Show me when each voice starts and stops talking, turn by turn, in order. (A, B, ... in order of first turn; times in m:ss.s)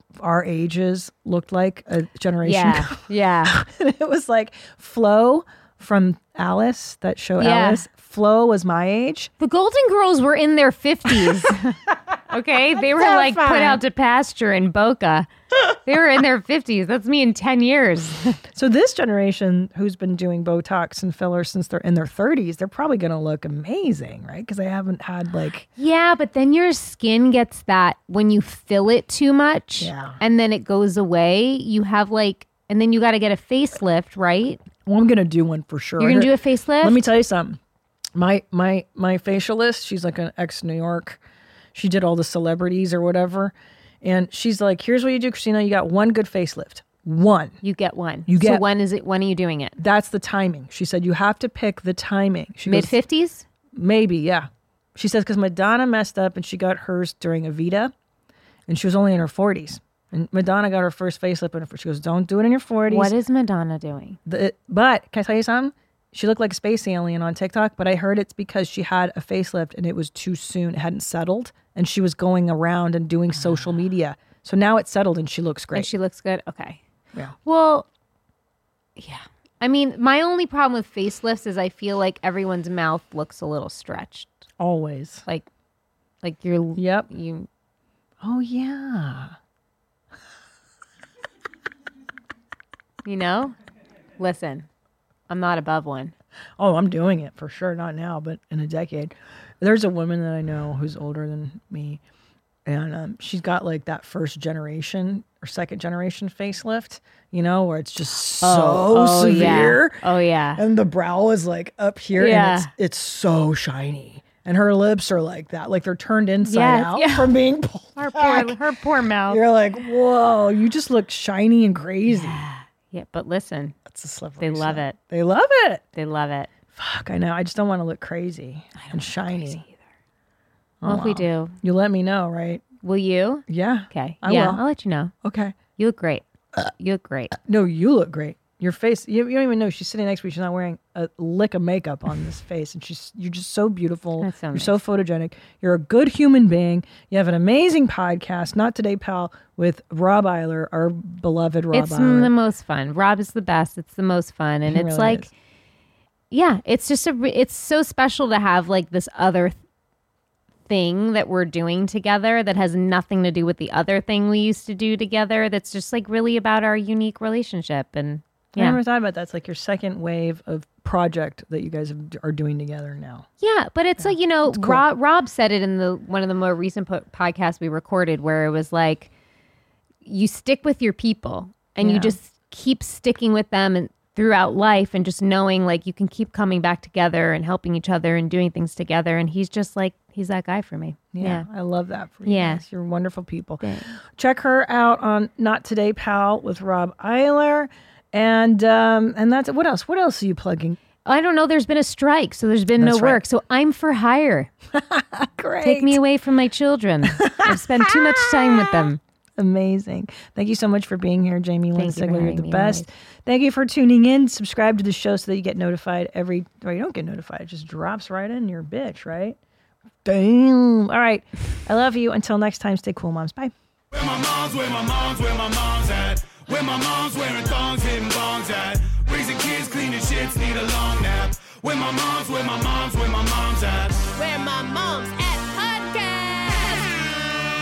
0:00.2-0:09.3 A
0:02.4-0:03.6 B
0:07.4-0:07.8 B
0:09.4-0:18.4 B
0:12.8-0:13.8 A
0:18.5-0:25.7 A
0:25.8-0:34.6 B
0:29.8-0:30.2 A
0:34.8-0:37.6 A
0:36.0-0:37.1 B
0:38.1-0:41.2 A
0:41.7-0:47.6 A
0:47.6-0:49.8 B
0:48.3-0:48.6 A
0:49.8-0:52.9 A
0:52.6-0:53.4 B
0:53.7-0:57.9 A
0:58.7-1:03.1 A
1:02.9-1:04.2 B
1:04.2-1:15.9 A
1:15.7-1:16.8 B
1:17.4-1:17.9 B
1:19.0-1:24.4 B
1:24.6-1:25.2 A
1:26.2-1:27.5 B
1:26.8-1:27.1 A
1:28.2-1:29.4 A
1:33.0-1:33.5 B
1:34.2-1:34.7 B
1:35.3-1:36.1 B
1:36.6-1:42.0 A
1:42.6-1:50.0 A
1:48.4-1:50.6 B
1:50.6-1:58.6 A
1:52.2-1:52.7 B
1:56.4-1:57.3 B
1:58.0-1:59.4 B
1:59.3-2:02.4 A
2:02.1-2:03.8 B
2:03.9-2:05.8 A
2:04.4-2:05.0 B
2:05.9-2:06.5 B
2:06.7-2:09.6 A
2:08.8-2:09.8 B
2:10.8-2:12.6 A
2:10.8-2:11.5 B
2:12.8-2:15.1 B
2:13.5-2:14.6 A
2:15.2-2:15.5 A
2:15.8-2:17.3 B
2:17.4-2:32.3 A
2:24.2-2:24.8 B
2:31.7-2:35.3 B
2:34.7-2:35.3 A
2:36.3-2:39.6 B
2:40.7-2:48.8 B
2:48.6-2:53.3 A
2:53.4-2:59.1 B
2:54.0-2:54.8 A
3:00.0-3:11.4 B
3:01.8-3:02.1 A
3:11.1-3:13.6 A
3:12.2-3:12.6 B
3:13.6-3:13.9 B
3:14.1-3:20.8 A
3:21.0-3:24.5 B
3:22.8-3:23.2 A
3:24.7-3:26.0 A
3:25.6-3:29.0 B
3:27.2-3:39.4 A
3:31.7-3:32.9 B
3:40.0-3:43.5 A
3:43.9-3:54.1 C
3:54.2-3:57.2 D